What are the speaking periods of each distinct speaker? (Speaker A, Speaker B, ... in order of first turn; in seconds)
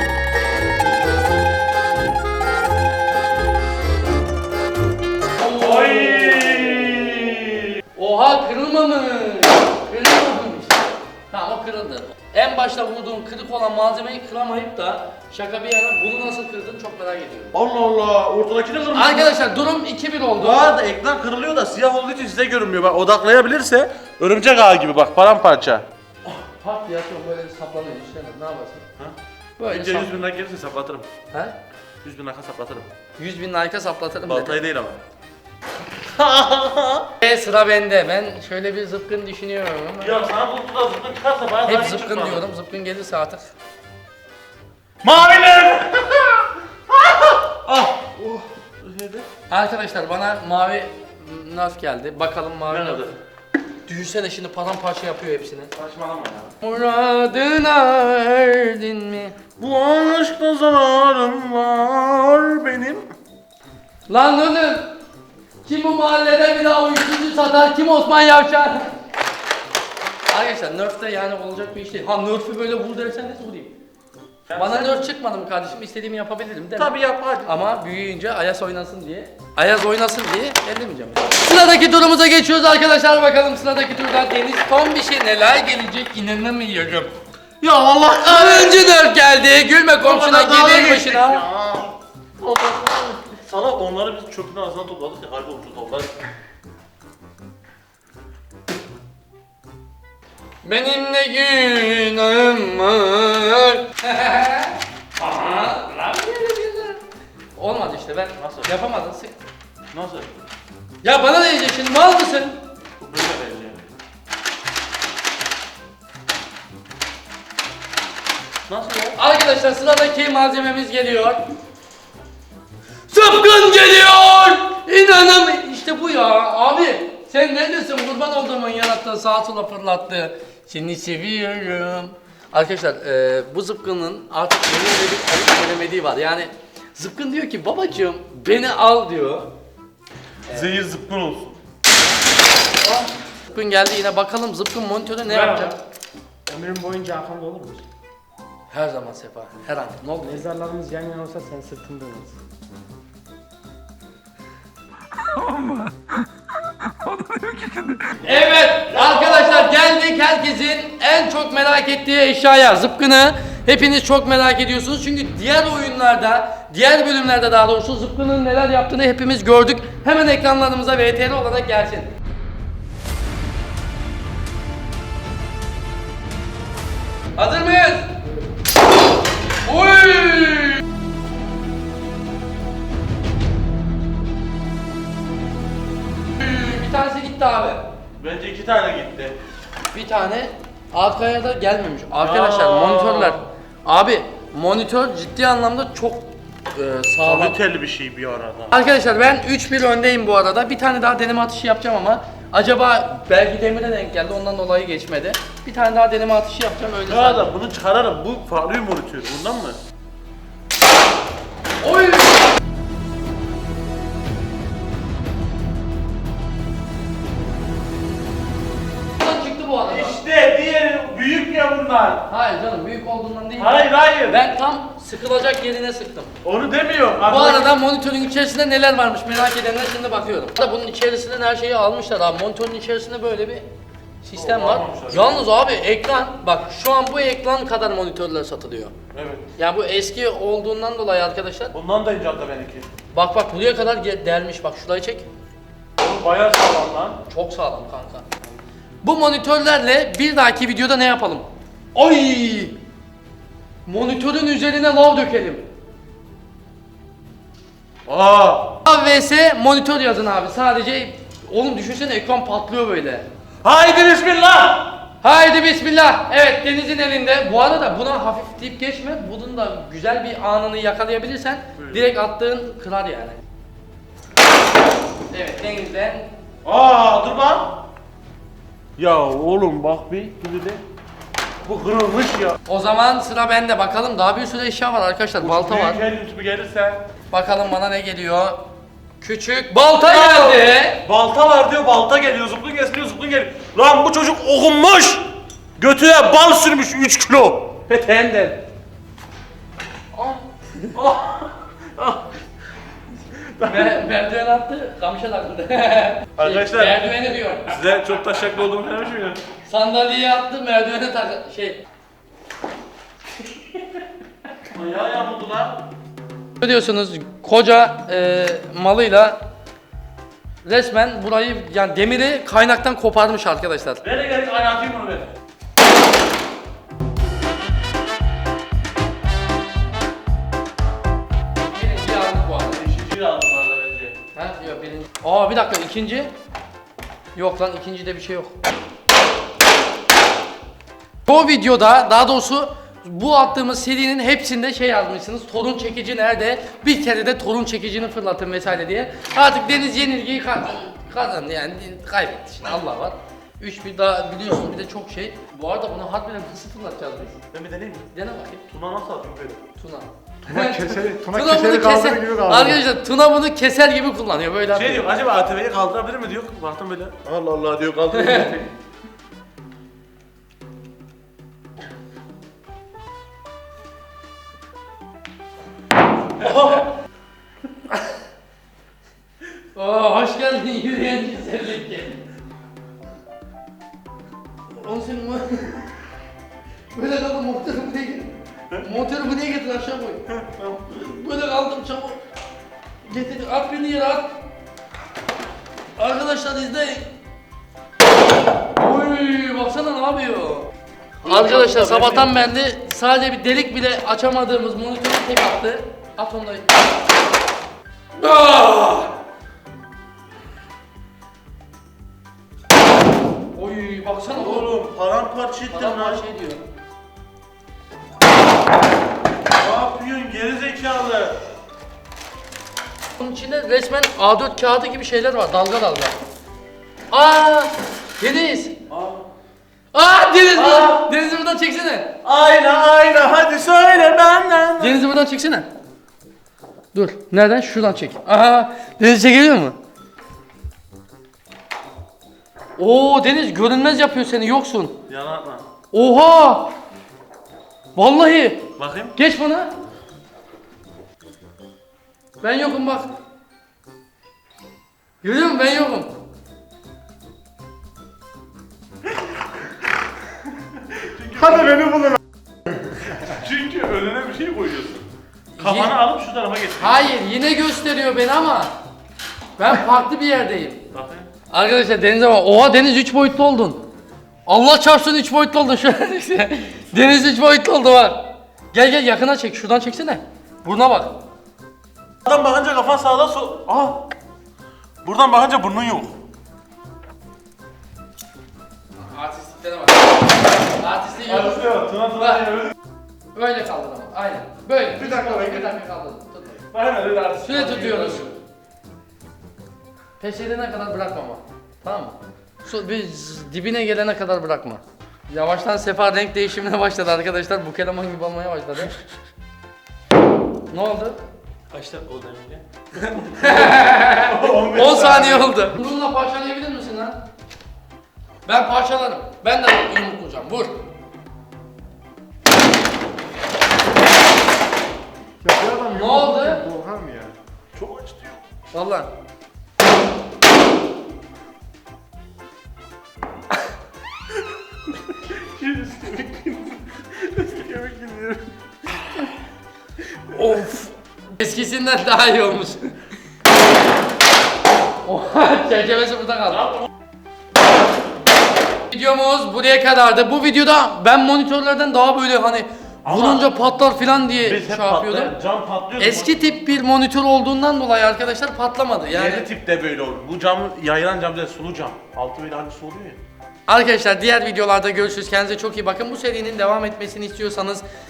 Speaker A: 5.3-6.9, 7.9-17.5, 18.9-20.7, 26.3-28.9, 29.6-30.2, 31.3-31.6, 33.2-34.6, 37.2-40.2, 41.6-43.5, 49.5-53.1, 53.9-55.7, 56.6-59.4, 64.1-64.9, 65.6-68.9, 70.3-73.7, 74.5-76.9, 77.4-87.1, 88.2-91.4, 100.6-107.0, 107.5-109.3, 111.0-112.6, 119.2-121.4, 123.1-139.5, 143.5-145.7, 148.7-150.4, 158.2-172.1, 177.3-178.2, 179.6-180.8, 186.3-187.8, 189.9-197.6, 198.7-207.5, 211.8-212.5, 219.2-220.2, 222.3-226.3, 227.2-233.7, 234.2-238.9, 239.6-241.7, 243.1-245.2, 247.3-248.2, 249.0-252.8, 253.8-255.7, 258.8-263.3, 265.2-273.4, 275.3-276.3, 282.7-286.0, 287.3-288.6, 289.2-291.0, 297.9-298.6, 303.6-307.8, 309.6-311.8, 316.6-319.4, 320.6-324.0, 331.6-332.8, 334.3-336.3, 337.3-338.6, 341.2-357.4, 358.1-358.6, 359.8-365.1, 368.1-368.6, 376.6-376.9, 379.7-382.2, 384.7-385.9, 386.9-390.2, 390.9-392.2, 393.0-394.3, 396.0-397.1, 398.7-400.7, 401.2-406.7, 408.1-409.1, 413.5-414.7, 415.7-416.6, 423.2-426.1, 427.1-428.8, 429.9-432.1, 434.8-435.7, 436.9-439.8, 442.8-445.0, 445.9-446.7, 447.9-449.7, 452.4-453.1, 455.2-456.1, 465.5-465.9, 466.8-468.7, 469.6-470.8, 471.5-473.8, 474.4-481.2, 489.0-491.6, 493.3-496.6, 497.4-498.3, 500.2-509.0, 510.7-511.2, 513.4-517.2, 518.5-520.8, 525.8-526.6, 528.7-529.1, 540.3-542.9, 545.0-546.8, 548.9-555.3, 556.0-559.5, 563.7-567.8
Speaker B: 5.6-7.8, 17.5-19.4, 20.4-25.8, 29.7-31.1, 32.0-32.9, 34.2-35.0, 36.0-37.1, 40.0-42.5, 45.0-49.3, 52.7-53.1, 55.7-56.5, 59.6-63.1, 74.5-75.0, 76.8-77.5, 87.6-88.8, 90.0-96.1, 108.4-108.7, 109.9-110.3, 113.0-113.9, 118.7-119.2, 140.5-141.6, 145.3-145.8, 157.2-159.7, 188.2-189.4, 192.2-193.4, 197.2-198.8, 207.1-209.8, 219.8-222.2, 223.6-224.4, 226.4-227.7, 234.3-235.4, 239.1-239.5, 241.7-242.9, 246.0-247.2, 258.1-258.8, 263.6-265.0, 271.8-272.1, 276.6-277.8, 279.0-280.8, 281.6-282.6, 285.4-287.0, 290.0-297.9, 300.1-300.4, 300.9-302.3, 303.3-304.0, 306.4-307.0, 307.7-309.4, 314.7-315.9, 324.0-325.3, 332.7-334.1, 357.5-358.1, 358.7-359.6, 364.7-368.7, 390.3-390.9, 401.2-402.4, 414.3-416.2, 419.5-421.4, 428.9-429.2, 430.5-431.1, 432.2-435.0, 445.1-445.6, 448.8-449.1, 460.8-462.2, 463.1-465.1, 465.6-467.1, 470.9-471.3, 482.2-484.1, 485.0-486.2, 491.2-492.7, 494.9-495.7, 496.7-498.4, 511.7-515.6, 527.7-528.4, 535.1-538.5, 553.0-553.5, 554.4-556.5, 559.1-563.2
Speaker C: 146.5-147.8, 150.3-152.3, 511.8-512.3
Speaker D: 150.8-151.9, 360.4-362.8, 525.4-527.3